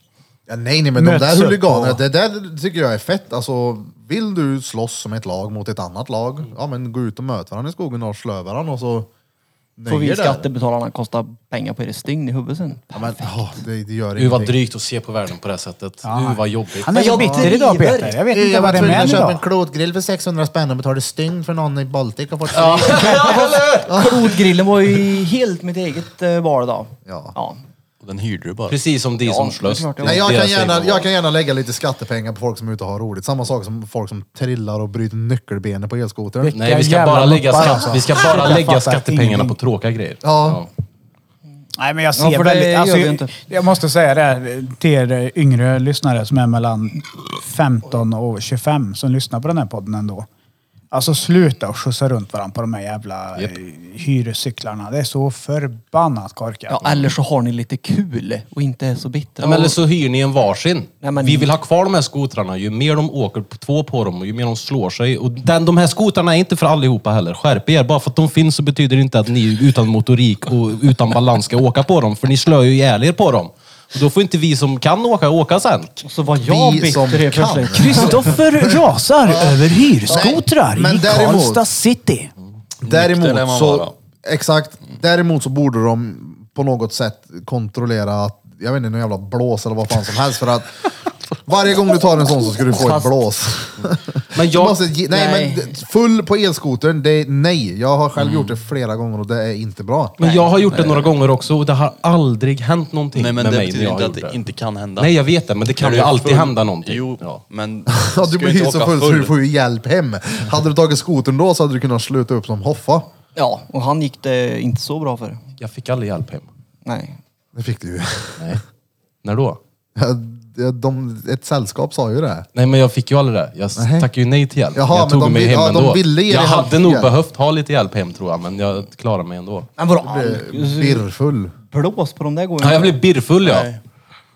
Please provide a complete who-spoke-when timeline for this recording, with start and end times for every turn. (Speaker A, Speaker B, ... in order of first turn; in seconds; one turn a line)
Speaker A: 0.5-9.1
Speaker B: 1.0-2.0
Speaker A: 9.8-10.4
Speaker C: 9.9-13.4
Speaker A: 12.9-14.6
Speaker D: 14.2-17.0
Speaker B: 16.0-19.4
Speaker C: 16.9-19.3
Speaker A: 17.2-17.5
Speaker A: 18.3-23.2
Speaker D: 22.5-24.1
Speaker C: 22.8-27.6
Speaker A: 23.9-24.3
Speaker A: 27.1-27.3
Speaker E: 28.0-28.8
Speaker D: 28.7-31.1
Speaker C: 29.2-30.2
Speaker A: 30.0-36.6
Speaker B: 36.4-39.5
Speaker D: 36.5-40.7
Speaker A: 40.2-40.6
Speaker B: 41.8-50.3
Speaker C: 42.1-43.3
Speaker B: 50.9-56.8
Speaker C: 56.7-59.8
Speaker E: 56.9-57.1
Speaker D: 59.4-75.9
Speaker C: 61.0-61.5
Speaker C: 76.0-78.3
Speaker A: 76.4-81.6
Speaker B: 77.8-82.3
Speaker E: 82.8-83.9
Speaker A: 82.8-90.9
Speaker A: 91.5-100.1
Speaker C: 92.6-93.2
Speaker D: 94.3-94.8
Speaker C: 95.1-95.8
Speaker E: 98.2-98.5
Speaker C: 100.2-101.1
Speaker D: 100.2-104.4
Speaker E: 103.1-105.1
Speaker D: 105.0-107.4
Speaker E: 105.8-109.3
Speaker A: 107.9-113.1
Speaker C: 113.3-115.4
Speaker D: 115.6-116.5
Speaker C: 116.8-117.2
Speaker A: 117.5-118.6
Speaker D: 119.2-119.6
Speaker A: 120.0-122.5
Speaker D: 122.5-129.7
Speaker A: 123.8-124.1
Speaker A: 124.7-127.1
Speaker C: 129.8-131.0
Speaker A: 130.0-131.5
Speaker C: 131.7-133.0
Speaker D: 132.6-133.7
Speaker E: 133.4-133.8